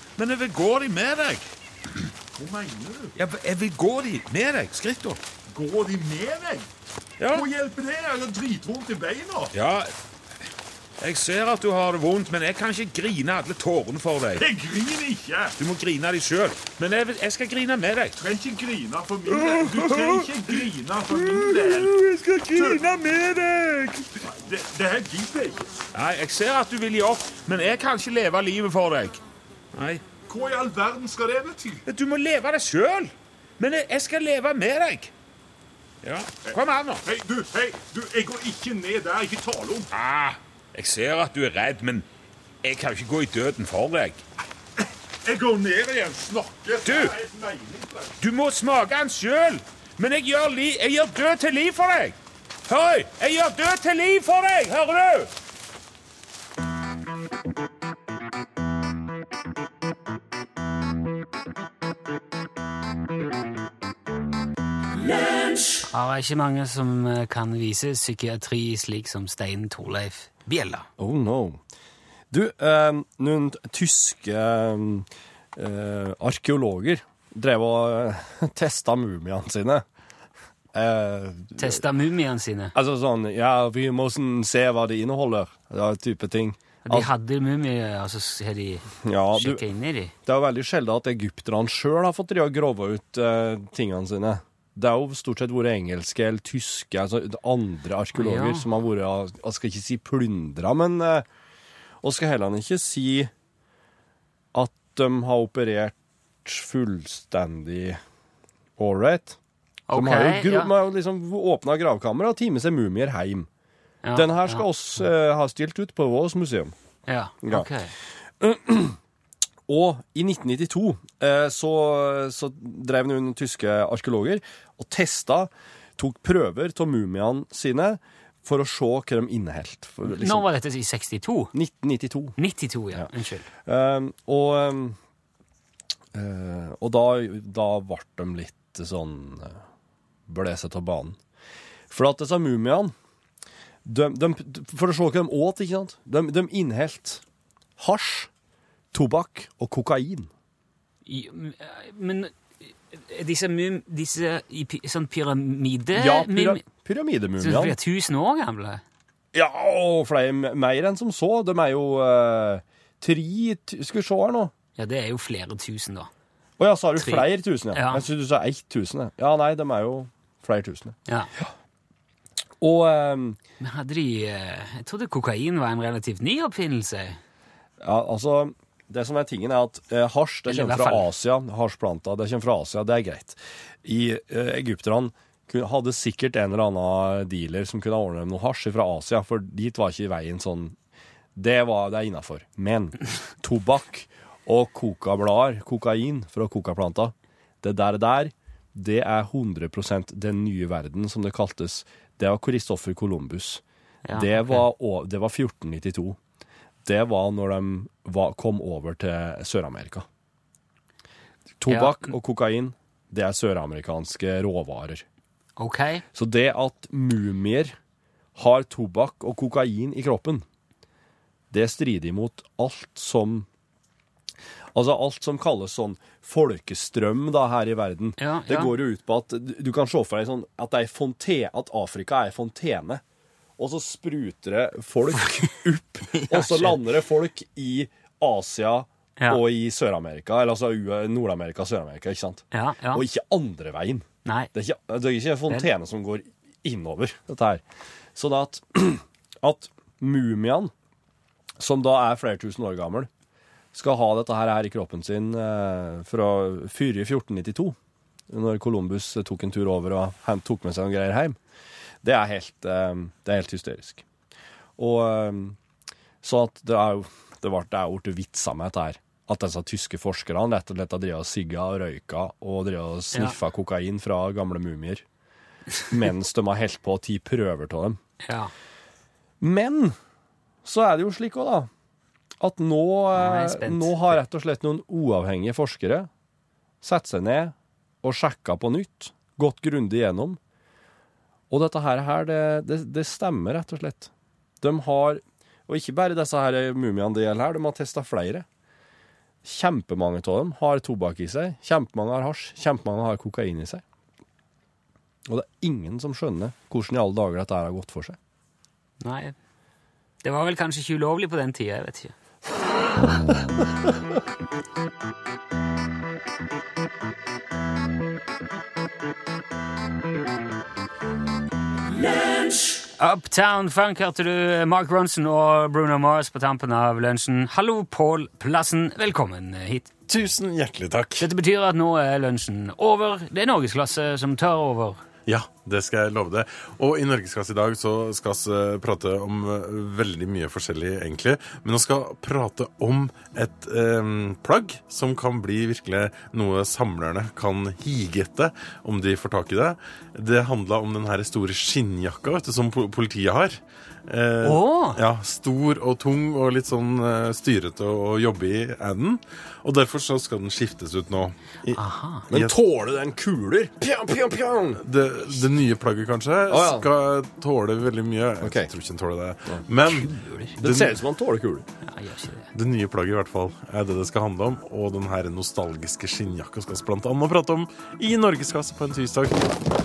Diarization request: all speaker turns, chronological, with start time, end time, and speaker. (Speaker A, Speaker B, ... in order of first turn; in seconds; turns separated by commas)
Speaker A: 0.2-1.4, Speaker B: 2.3-3.1, Speaker A: 3.1-5.2, Speaker B: 5.5-6.7, Speaker A: 7.2-7.5, Speaker B: 7.3-9.5, Speaker A: 9.5-9.9, Speaker A: 11.0-14.4, Speaker B: 14.3-15.5, Speaker A: 15.6-18.2, Speaker B: 18.2-22.0, Speaker A: 19.3-20.3, Speaker A: 21.1-24.1, Speaker B: 22.5-22.8, Speaker B: 24.2-25.7, Speaker A: 25.9-29.2, Speaker A: 29.7-30.0, Speaker B: 30.3-31.8, Speaker A: 31.9-35.1, Speaker A: 36.0-37.0, Speaker B: 37.0-39.9, Speaker A: 39.9-42.0, Speaker A: 42.6-44.2, Speaker B: 45.2-48.1, Speaker A: 46.8-47.2, Speaker A: 48.2-55.3, Speaker C: 65.8-70.9, Speaker D: 71.0-71.6, Speaker D: 72.3-79.8, Speaker D: 80.7-81.8, Speaker C: 81.6-82.7, Speaker D: 82.7-87.1, Speaker C: 86.8-90.1, Speaker D: 89.0-89.6, Speaker D: 90.2-101.2, Speaker C: 98.1-98.7, Speaker D: 102.0-103.3, Speaker D: 104.5-108.0, Speaker D: 108.8-109.4, Speaker C: 109.9-110.7, Speaker D: 109.9-113.5, Speaker C: 114.0-114.7, Speaker D: 114.1-116.7, Speaker C: 117.1-117.9, Speaker D: 117.4-117.7, Speaker D: 118.4-119.0, Speaker D: 119.7-130.4, Speaker C: 130.1-131.5, Speaker D: 131.5-132.3, Speaker C: 132.4-133.4, Speaker D: 133.6-135.0, Speaker D: 136.1-139.6, Speaker D: 140.3-141.2, Speaker D: 141.9-142.9, Speaker D: 143.8-147.2, Speaker D: 147.8-148.3, Speaker D: 148.9-150.3, Speaker C: 151.1-152.3, Speaker C: 152.9-156.6, Speaker D: 155.9-157.8, Speaker C: 157.4-158.8, Speaker D: 159.3-164.5, Speaker C: 164.8-166.1, Speaker D: 166.6-171.5, Speaker C: 167.0-168.1, Speaker D: 172.6-173.4, Speaker C: 173.6-177.2, Speaker D: 177.8-190.8, Speaker C: 180.5-181.1, Speaker D: 191.3-206.2, Speaker C: 204.0-204.7, Speaker D: 206.8-210.1, Speaker D: 211.6-215.0, Speaker C: 211.7-212.1, Speaker C: 215.6-216.0, Speaker D: 216.1-217.7, Speaker D: 218.3-220.4, Speaker D: 221.5-223.5, Speaker D: 224.7-233.0, Speaker C: 228.2-228.7, Speaker D: 233.6-247.6, Speaker C: 236.1-236.8, Speaker C: 242.5-243.0, Speaker C: 244.2-244.5, Speaker D: 248.1-250.7, Speaker D: 251.6-253.1, Speaker D: 253.7-257.8, Speaker D: 258.3-261.4, Speaker D: 262.0-264.0, Speaker D: 264.8-265.6, Speaker D: 266.2-275.0, Speaker D: 275.9-278.0, Speaker C: 278.2-278.5, Speaker D: 279.4-279.9, Speaker D: 280.6-281.7, Speaker D: 282.4-286.1, Speaker C: 283.1-284.2, Speaker D: 286.8-290.4, Speaker D: 291.5-298.4, Speaker D: 299.4-303.8, Speaker D: 305.2-308.2, Speaker C: 309.0-309.3, Speaker C: 310.2-312.1, Speaker D: 313.0-313.9, Speaker C: 323.0-329.9, Speaker E: 330.1-331.3, Speaker C: 331.2-335.0, Speaker E: 335.3-362.6, Speaker C: 354.4-355.0, Speaker C: 361.7-362.3, Speaker D: 362.3-364.8, Speaker E: 364.8-371.0, Speaker D: 366.5-366.9, Speaker D: 368.4-368.7, Speaker C: 369.8-370.6, Speaker D: 370.6-371.6, Speaker C: 371.8-372.5, Speaker E: 372.5-379.4